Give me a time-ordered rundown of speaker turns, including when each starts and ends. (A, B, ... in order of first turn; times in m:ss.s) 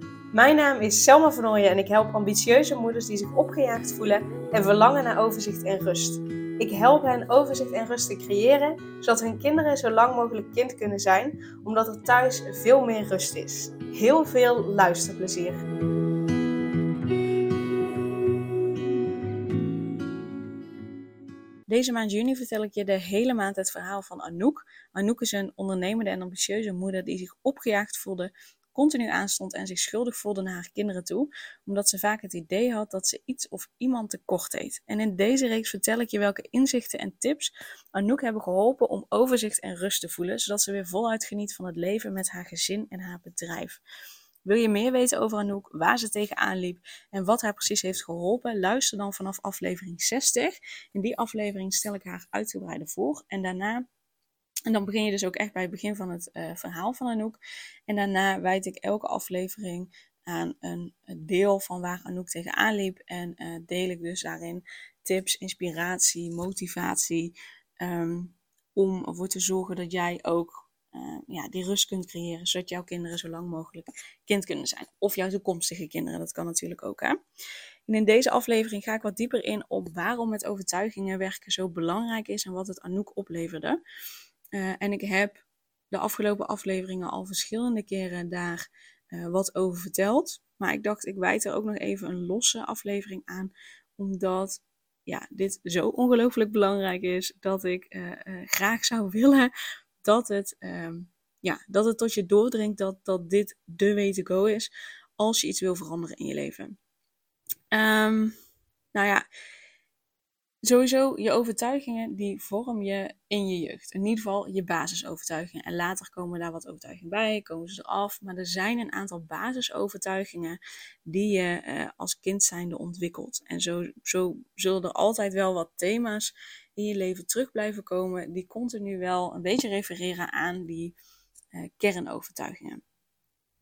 0:00.3-0:15.6 A
0:21.7-0:43.8 A
0:44.4-0:53.8 A
0:54.7-1:17.2 A
1:17.9-1:23.8 A
1:24.5-1:39.5 A
1:40.0-1:46.7 A
1:47.7-1:48.3 A
1:48.9-1:49.2 A
1:50.6-2:11.0 A
2:11.5-2:12.8 A